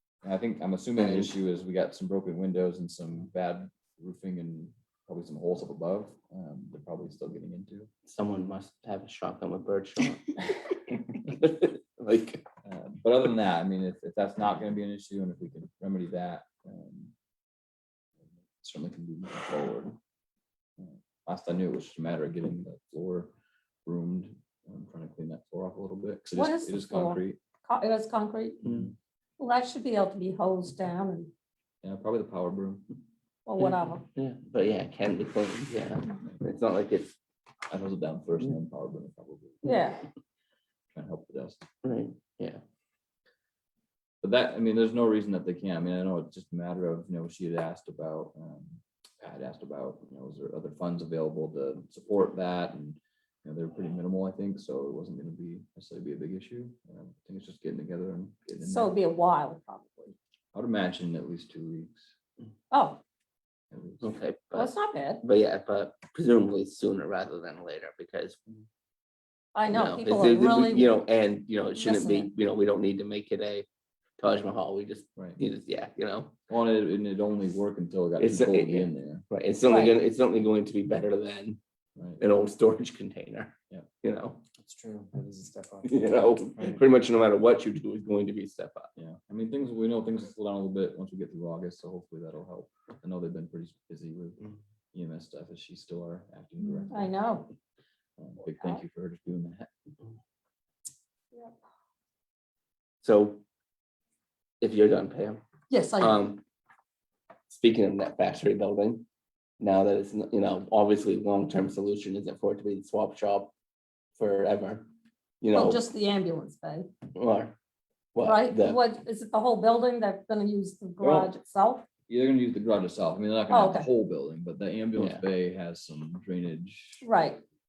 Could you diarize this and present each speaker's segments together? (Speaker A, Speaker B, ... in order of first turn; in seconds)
Speaker A: 0.2-7.9, 12.6-17.1, 18.6-20.0, 20.8-23.3, 23.8-27.4, 28.6-28.9, 31.8-32.9, 37.7-39.7, 40.9-41.6, 44.2-58.9, 60.5-62.1, 63.7-64.2, 76.5-79.2, 82.0-82.2, 89.0-97.2, 98.2-99.7, 121.0-121.3, 122.1-127.0
Speaker B: 1.0-1.3, 8.1-12.4, 33.6-37.1, 41.8-42.6, 64.0-68.4, 69.7-73.7, 74.2-76.3, 78.2-81.6, 82.2-84.4, 85.8-88.9, 103.0-103.4, 104.6-105.4, 106.0-106.4, 107.5-109.0, 109.6-113.5, 114.2-114.9, 115.4-115.8, 117.1-117.5, 118.1-118.8, 125.0-125.2
Speaker C: 26.3-28.6, 29.4-31.3, 33.5-34.0, 39.6-40.0, 58.6-60.1, 62.7-63.0, 64.5-65.2, 69.5-70.9, 71.7-72.3, 79.7-80.0, 96.9-97.5, 105.7-106.2, 115.5-116.9, 118.2-121.8, 123.5-123.9, 127.0-127.4
Speaker D: 84.6-86.8